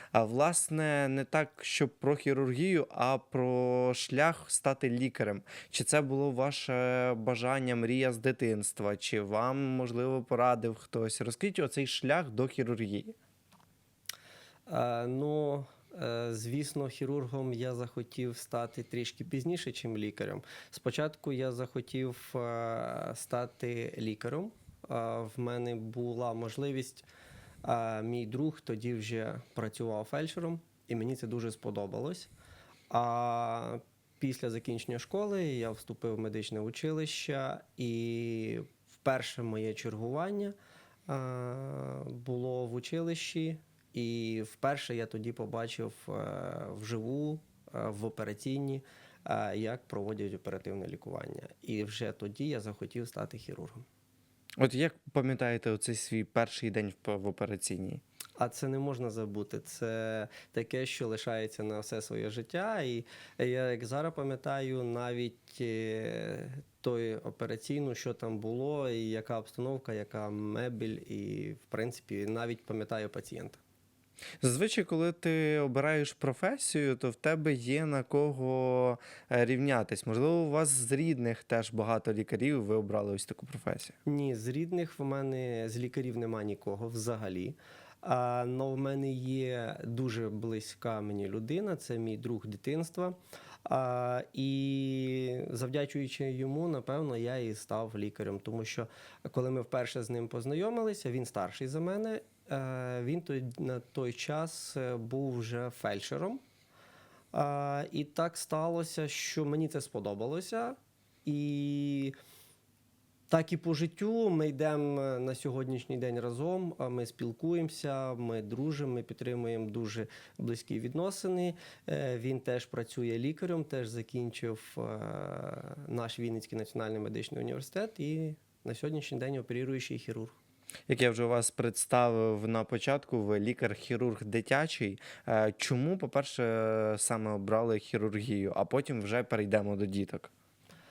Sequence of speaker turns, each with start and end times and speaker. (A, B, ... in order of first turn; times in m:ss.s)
0:00.1-0:13.1 A
0:14.7-0:27.1 B
0:27.6-0:32.3 B
0:32.9-0:40.5 B
0:41.1-0:53.8 B
0:54.6-0:58.0 A
0:58.4-1:13.6 B
1:14.4-1:23.9 A
1:24.0-1:46.4 B
1:47.3-1:52.1 B
1:53.3-2:10.4 B
2:10.9-2:20.3 A